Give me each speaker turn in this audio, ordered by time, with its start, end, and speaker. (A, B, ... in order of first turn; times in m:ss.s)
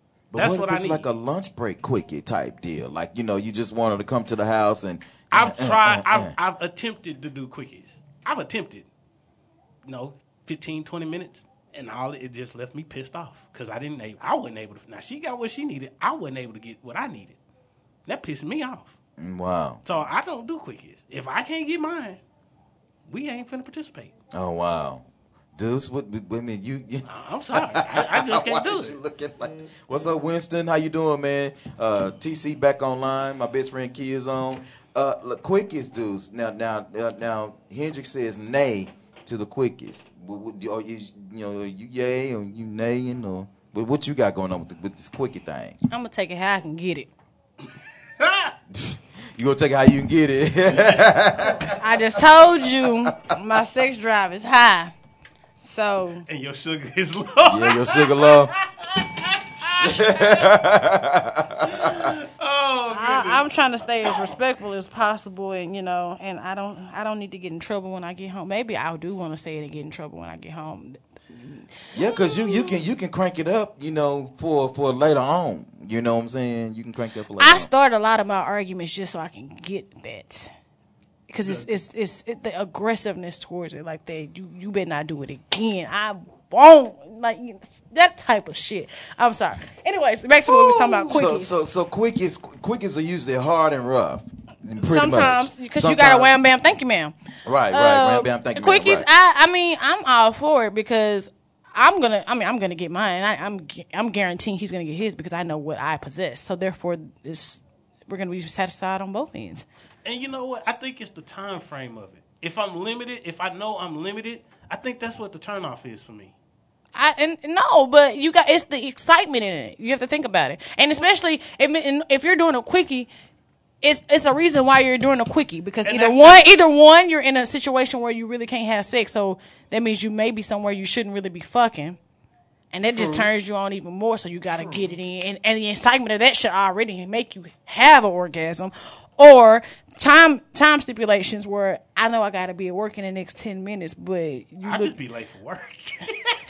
0:00.3-0:06.3 A
0:00.4-0:01.1 B
0:05.3-0:08.9 B
0:09.9-0:17.4 B
0:18.1-0:18.9 B
0:19.2-0:19.8 A
0:19.8-0:22.2 B
0:23.1-0:24.1 B
0:24.3-0:25.0 A
0:25.6-0:45.8 A
0:27.1-0:29.0 B
0:45.9-0:47.1 C
0:48.2-0:48.5 B
0:48.7-0:51.8 A
0:51.8-0:54.9 C
0:55.6-0:56.2 C
0:56.3-1:00.5 B
0:57.4-0:58.5 A
0:59.8-1:02.1 A
1:01.7-1:03.5 B
1:02.9-1:11.0 C
1:11.9-1:17.7 A
1:17.4-1:20.5 C
1:21.3-1:31.5 C
1:30.5-1:36.3 A
1:34.8-1:37.2 C
1:37.5-1:39.1 A
1:37.7-1:49.6 C
1:50.0-1:56.3 B
1:57.0-2:03.1 C
2:03.8-2:12.0 C
2:05.8-2:06.4 B
2:12.7-2:24.9 C
2:12.9-2:13.3 B
2:14.5-2:15.0 B
2:24.6-2:26.4 B